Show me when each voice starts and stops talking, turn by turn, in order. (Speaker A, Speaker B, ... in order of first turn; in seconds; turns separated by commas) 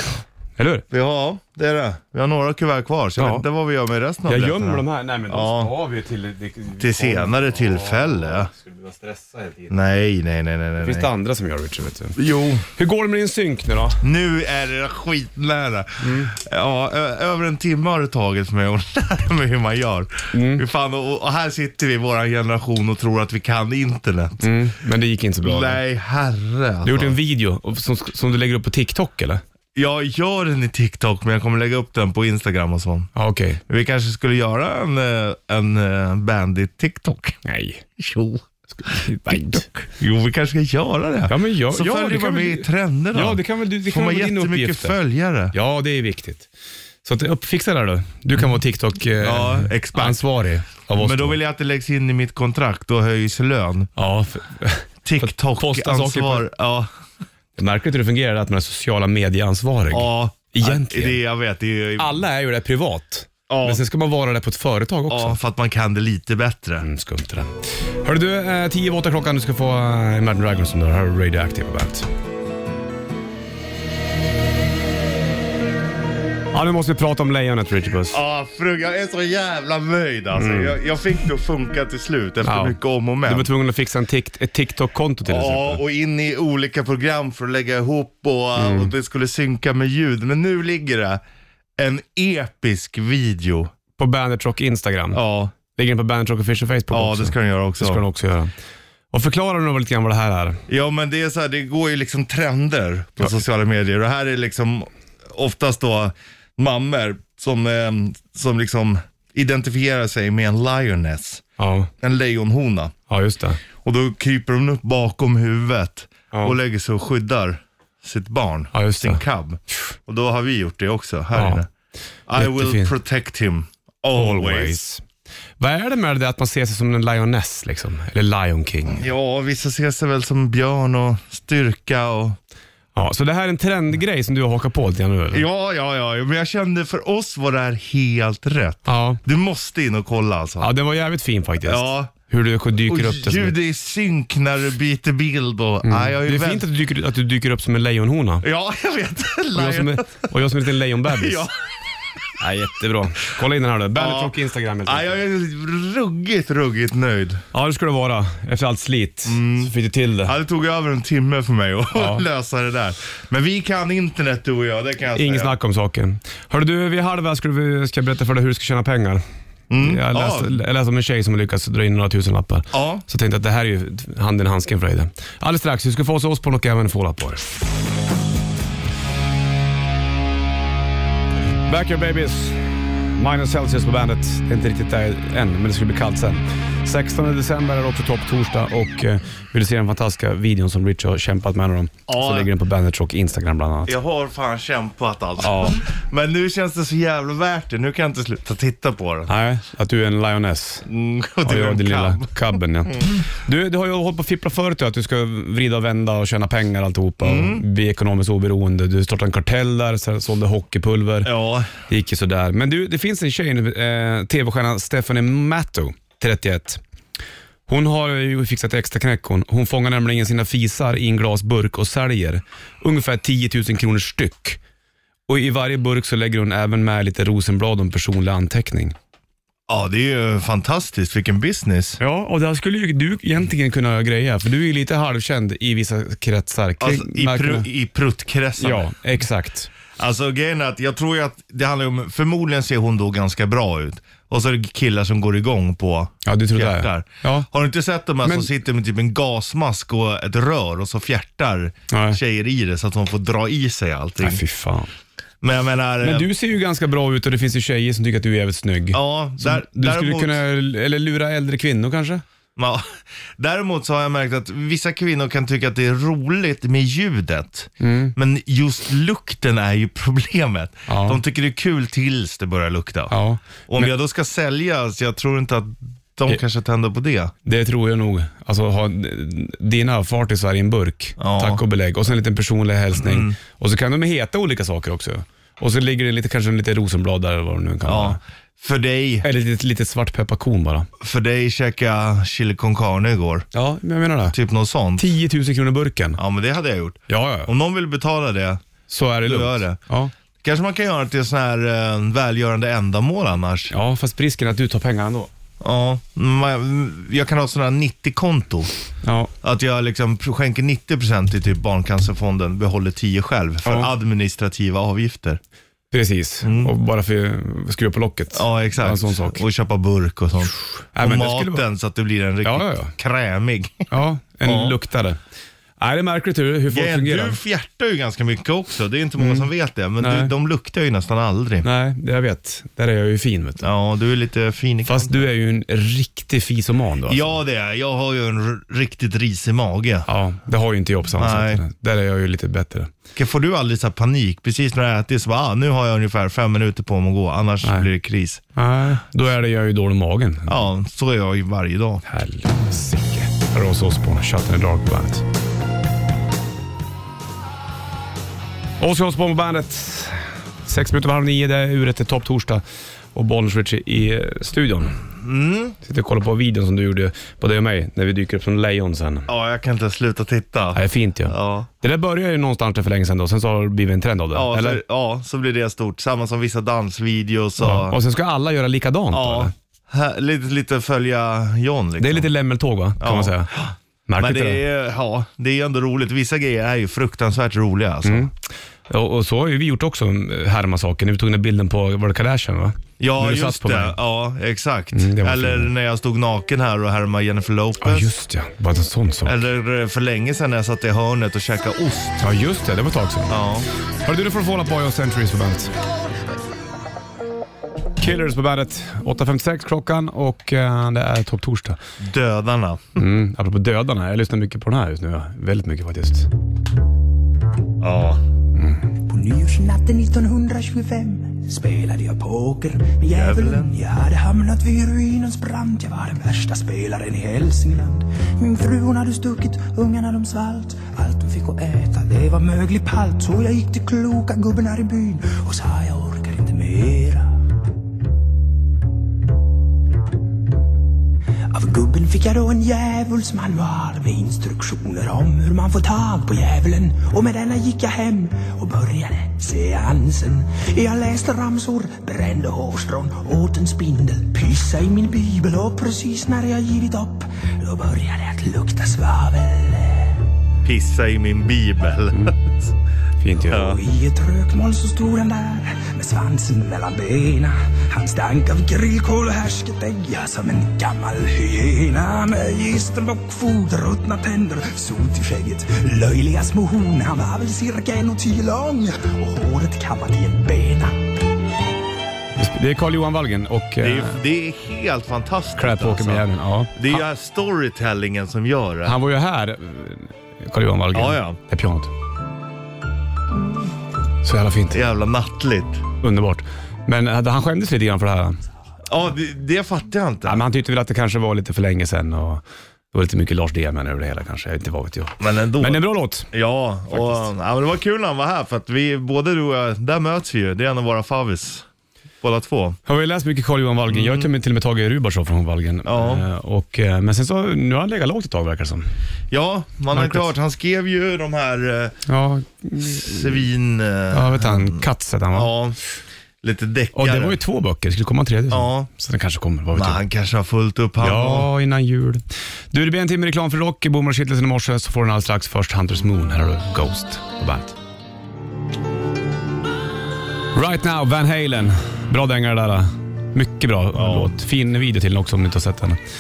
Speaker A: 0.6-0.8, Speaker B: 0.9-5.7, Speaker A: 3.2-3.4, Speaker A: 4.3-9.8, Speaker B: 6.8-8.5, Speaker B: 9.7-11.1, Speaker A: 10.8-14.0, Speaker B: 12.2-12.7, Speaker B: 14.0-24.5, Speaker A: 16.0-16.3, Speaker A: 20.3-20.6, Speaker A: 24.4-25.8, Speaker B: 25.4-27.2, Speaker A: 26.8-29.4, Speaker B: 29.8-33.1, Speaker A: 33.2-33.6, Speaker B: 33.7-37.4, Speaker A: 37.5-38.0, Speaker B: 38.0-38.4, Speaker A: 38.8-39.7, Speaker B: 38.9-45.5, Speaker A: 41.3-45.0, Speaker A: 45.5-46.5, Speaker A: 47.0-51.4, Speaker B: 49.2-50.2, Speaker B: 50.9-53.9, Speaker A: 54.0-56.5, Speaker B: 55.0-56.9, Speaker A: 57.6-61.2, Speaker B: 59.9-62.2, Speaker A: 62.0-65.4, Speaker B: 63.5-63.8, Speaker B: 65.1-66.9, Speaker A: 66.8-72.1, Speaker A: 76.5-78.2, Speaker B: 78.1-83.5, Speaker A: 80.3-80.8, Speaker A: 82.4-85.8, Speaker B: 85.2-91.2, Speaker A: 88.6-88.9, Speaker B: 91.8-93.7, Speaker A: 94.0-98.5, Speaker B: 95.1-95.5, Speaker B: 96.9-98.0, Speaker A: 99.1-100.6, Speaker B: 100.7-111.4, Speaker A: 111.6-111.9, Speaker B: 112.0-112.9, Speaker A: 113.1-113.6, Speaker B: 113.8-121.7, Speaker A: 116.3-116.6, Speaker A: 118.7-119.2, Speaker A: 121.3-121.6, Speaker B: 122.3-124.8, Speaker A: 122.4-122.9, Speaker A: 124.1-125.0, Speaker A: 125.6-129.1, Speaker B: 128.9-132.4, Speaker A: 132.9-135.4, Speaker B: 135.3-140.7, Speaker A: 138.9-139.2, Speaker A: 140.6-143.6, Speaker B: 141.6-142.1, Speaker B: 142.8-146.7, Speaker A: 145.8-148.4, Speaker B: 148.4-150.3, Speaker A: 149.6-151.5, Speaker B: 151.0-151.5, Speaker A: 152.4-155.2, Speaker B: 153.9-157.4, Speaker A: 157.5-160.3, Speaker B: 159.2-165.5, Speaker A: 161.9-162.2, Speaker A: 165.2-169.2, Speaker B: 169.7-170.5, Speaker A: 169.8-177.5, Speaker B: 172.7-173.0, Speaker A: 181.7-193.9, Speaker B: 192.1-192.5, Speaker B: 193.9-199.3, Speaker A: 195.4-195.8, Speaker A: 199.3-200.9, Speaker B: 200.9-203.2, Speaker A: 201.4-211.3, Speaker B: 207.2-207.6, Speaker B: 211.2-211.7, Speaker A: 211.9-216.8, Speaker A: 217.7-224.6, Speaker A: 225.3-229.0, Speaker B: 229.7-232.0, Speaker A: 232.0-237.7, Speaker B: 236.8-238.9, Speaker A: 238.6-239.7, Speaker B: 240.0-254.4, Speaker A: 246.2-247.5, Speaker A: 248.2-248.5, Speaker A: 251.9-252.2, Speaker A: 254.2-254.9, Speaker B: 255.4-256.3, Speaker A: 256.0-262.2, Speaker B: 258.9-260.4, Speaker B: 262.6-262.9, Speaker B: 263.4-273.2, Speaker A: 267.8-268.1, Speaker A: 270.9-271.2, Speaker A: 273.1-273.9, Speaker B: 273.7-277.3, Speaker A: 277.4-288.2, Speaker B: 281.2-281.6, Speaker B: 283.0-283.4, Speaker B: 287.8-289.3, Speaker A: 289.2-290.9, Speaker B: 291.0-293.5, Speaker A: 293.5-294.4, Speaker B: 294.3-295.1, Speaker A: 295.0-296.2, Speaker B: 296.2-298.6, Speaker A: 297.1-297.5, Speaker A: 298.9-300.1, Speaker B: 299.2-299.8, Speaker B: 300.4-303.7, Speaker A: 303.7-305.3, Speaker B: 305.6-308.7, Speaker A: 309.0-309.3, Speaker B: 309.4-315.4, Speaker A: 313.6-313.9, Speaker A: 315.9-319.4, Speaker B: 316.4-316.7, Speaker B: 318.3-323.9, Speaker A: 320.9-321.7, Speaker A: 322.4-322.9, Speaker A: 323.9-325.2, Speaker B: 324.4-324.8, Speaker A: 325.8-327.4, Speaker B: 326.7-331.7, Speaker A: 329.2-329.5, Speaker A: 330.0-330.3, Speaker A: 331.6-333.7, Speaker B: 333.6-335.2, Speaker A: 334.9-337.4, Speaker B: 337.1-340.1, Speaker A: 340.1-342.9, Speaker B: 341.2-341.6, Speaker B: 343.2-348.4, Speaker A: 348.6-350.6, Speaker B: 350.5-352.0, Speaker A: 352.1-355.2, Speaker A: 358.8-362.6, Speaker A: 363.1-365.0, Speaker B: 365.2-365.8, Speaker A: 365.8-369.3, Speaker B: 369.3-371.7, Speaker A: 370.8-374.8, Speaker B: 374.3-378.0, Speaker A: 377.6-379.5, Speaker B: 379.1-382.3, Speaker A: 382.0-383.5, Speaker B: 383.0-388.3, Speaker A: 384.1-384.6, Speaker A: 388.0-388.3, Speaker A: 388.9-394.0, Speaker B: 393.0-398.1, Speaker A: 394.9-395.7, Speaker A: 397.8-399.4, Speaker B: 399.2-402.2, Speaker A: 402.2-403.4, Speaker B: 403.3-403.7, Speaker A: 404.0-405.7, Speaker A: 408.0-411.8, Speaker B: 412.0-413.0, Speaker A: 413.0-416.3, Speaker B: 417.8-418.2, Speaker A: 418.6-418.8, Speaker C: 419.1-437.3, Speaker B: 423.1-423.7, Speaker C: 441.5-460.1, Speaker B: 460.6-462.7, Speaker A: 463.2-463.8, Speaker B: 463.5-463.8, Speaker C: 463.6-481.0, Speaker A: 482.4-484.2, Speaker B: 483.8-489.0, Speaker A: 485.6-487.0, Speaker A: 488.9-491.9, Speaker B: 490.9-491.4, Speaker A: 494.2-494.8, Speaker B: 494.7-495.8, Speaker A: 496.0-498.4, Speaker B: 498.9-500.4, Speaker A: 500.2-506.3, Speaker B: 505.2-511.7, Speaker A: 506.9-507.3, Speaker B: 512.2-512.8, Speaker A: 512.9-518.9, Speaker B: 513.9-514.3, Speaker B: 515.9-516.2, Speaker B: 519.3-522.0, Speaker A: 519.9-520.3, Speaker A: 522.1-523.5, Speaker B: 522.8-525.8, Speaker A: 524.1-525.5, Speaker B: 526.4-527.4, Speaker A: 527.0-530.0, Speaker B: 528.5-528.9, Speaker B: 529.7-531.5, Speaker A: 531.0-537.8, Speaker A: 540.5-546.0, Speaker B: 543.9-544.3